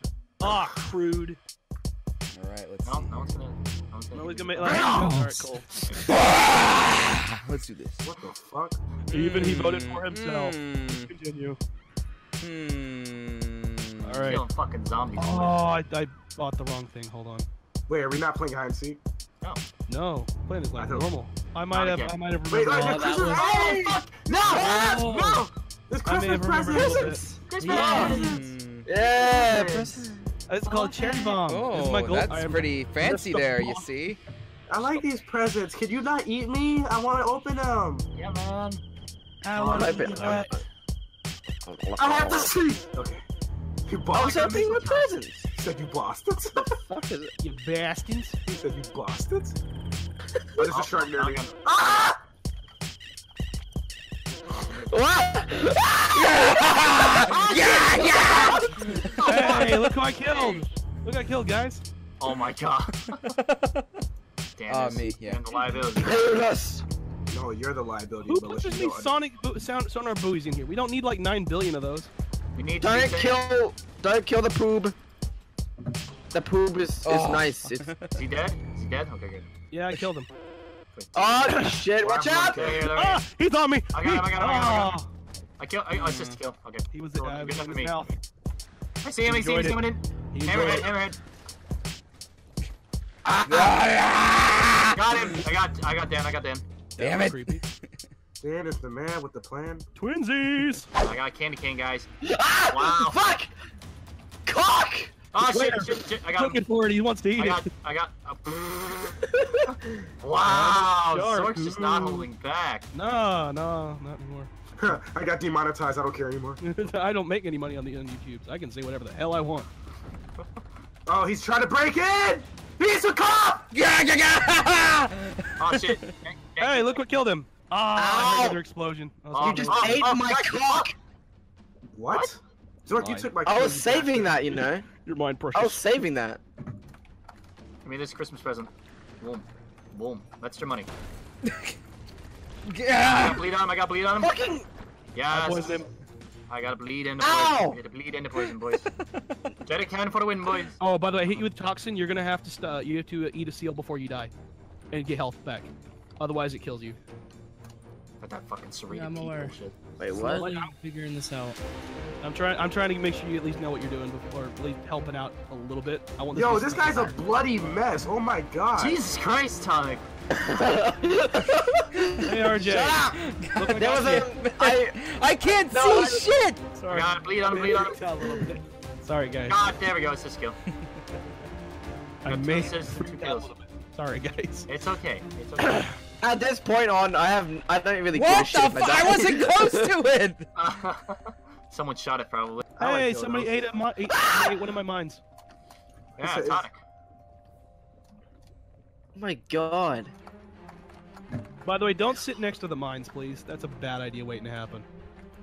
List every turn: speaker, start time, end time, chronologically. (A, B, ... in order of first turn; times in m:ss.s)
0:00.4-0:01.4 A
0:02.3-0:03.3 B
0:02.8-0:04.9 C
0:04.1-0:05.7 A
0:04.6-0:05.0 D
0:04.7-0:05.1 B
0:04.9-0:05.4 E
0:05.8-0:06.2 C
0:06.1-0:08.1 B
0:08.0-0:08.8 D
0:09.1-0:11.1 B
0:09.1-0:11.6 A
0:12.4-0:14.4 B
0:14.0-0:14.4 A
0:14.3-0:15.6 C
0:15.2-0:17.5 A
0:17.9-0:19.0 D
0:19.9-0:23.2 A
0:20.8-0:21.1 D
0:21.7-0:22.1 C
0:22.5-0:25.0 D
0:22.8-0:23.4 E
0:23.1-0:25.5 C
0:24.5-0:25.4 E
0:25.9-0:28.4 D
0:26.0-0:27.3 A
0:27.5-0:28.4 C
0:27.6-0:28.3 F
0:27.9-0:28.9 B
0:28.8-0:30.2 F
0:29.1-0:30.1 C
0:30.5-0:33.2 A
0:30.7-0:31.4 C
0:31.5-0:34.2 B
0:33.1-0:33.4 D
0:34.7-0:38.0 D
0:38.1-0:38.8 C
0:39.4-0:40.6 A
0:39.5-0:40.4 C
0:39.6-0:40.6 F
0:41.6-0:42.5 F
0:42.0-0:43.2 D
0:43.8-0:44.8 D
0:44.1-0:45.5 F
0:44.2-0:45.1 C
0:45.5-0:46.7 D
0:46.6-0:47.3 F
0:47.4-0:48.4 A
0:48.4-0:49.6 D
0:50.6-0:52.0 D
0:50.7-0:51.5 C
0:51.7-0:52.2 F
0:54.6-0:54.9 C
0:54.8-0:57.1 F
0:56.1-0:58.7 B
0:57.2-1:00.6 C
0:57.6-0:59.6 F
0:59.2-1:01.8 A
1:02.2-1:03.2 C
1:03.4-1:03.8 B
1:04.6-1:06.3 C
1:04.7-1:05.4 B
1:06.0-1:06.8 F
1:07.3-1:09.1 D
1:08.2-1:12.1 A
1:12.5-1:13.4 C
1:12.8-1:15.0 F
1:16.3-1:17.9 F
1:17.0-1:18.1 B
1:18.1-1:19.5 C
1:19.7-1:20.3 A
1:20.9-1:21.6 C
1:21.1-1:22.8 F
1:21.5-1:21.8 A
1:22.0-1:22.9 D
1:22.5-1:23.2 C
1:22.9-1:25.1 A
1:23.9-1:25.0 C
1:25.6-1:28.2 C
1:26.9-1:28.1 A
1:29.0-1:31.2 C
1:29.2-1:30.9 A
1:33.3-1:33.8 F
1:33.4-1:35.0 B
1:34.9-1:36.6 C
1:36.9-1:37.6 A
1:37.0-1:37.6 B
1:38.4-1:39.8 D
1:40.0-1:40.9 A
1:41.0-1:42.1 C
1:42.2-1:43.5 F
1:42.7-1:43.3 C
1:44.4-1:45.1 F
1:45.3-1:46.6 C
1:45.4-1:47.7 A
1:47.4-1:49.2 C
1:49.4-1:49.7 F
1:50.2-1:52.9 C
1:50.4-1:52.3 A
1:52.9-1:54.5 A
1:54.8-1:56.6 D
1:56.6-1:59.7 A
2:01.0-2:03.6 D
2:03.7-2:06.0 B
2:05.6-2:06.9 C
2:06.6-2:10.0 A
2:08.0-2:08.6 F
2:08.1-2:08.4 C
2:09.3-2:10.9 C
2:09.4-2:10.9 F
2:11.9-2:14.5 D
2:12.1-2:12.3 C
2:13.4-2:14.8 F
2:15.0-2:15.8 A
2:15.5-2:16.4 F
2:17.8-2:20.9 C
2:22.6-2:23.5 B
2:23.0-2:24.3 C
2:24.2-2:24.6 F
2:25.1-2:25.8 C
2:25.3-2:25.9 A
2:26.5-2:28.9 C
2:27.2-2:27.8 F
2:29.6-2:31.4 C
2:30.8-2:34.3 A
2:34.9-2:37.0 A
2:38.2-2:39.7 C
2:38.9-2:41.6 E
2:40.0-2:40.4 F
2:40.4-2:40.7 A
2:42.2-2:47.1 A
2:46.3-2:49.0 D
2:46.8-2:47.4 F
2:48.8-2:50.0 C
2:50.3-2:53.1 F
2:52.2-2:54.3 A
2:52.6-2:56.7 B
2:53.7-2:55.0 F
2:55.7-2:56.3 F
2:56.8-2:59.6 A
2:56.9-2:58.0 C
2:58.2-2:58.4 F
2:59.5-3:00.6 C
3:02.2-3:04.7 A
3:02.3-3:03.5 C
3:04.7-3:05.8 C
3:06.2-3:09.9 F
3:08.1-3:10.5 B
3:10.5-3:13.6 C
3:12.8-3:15.2 A
3:16.2-3:16.8 C
3:16.2-3:16.6 D
3:19.1-3:20.1 F
3:21.6-3:24.8 A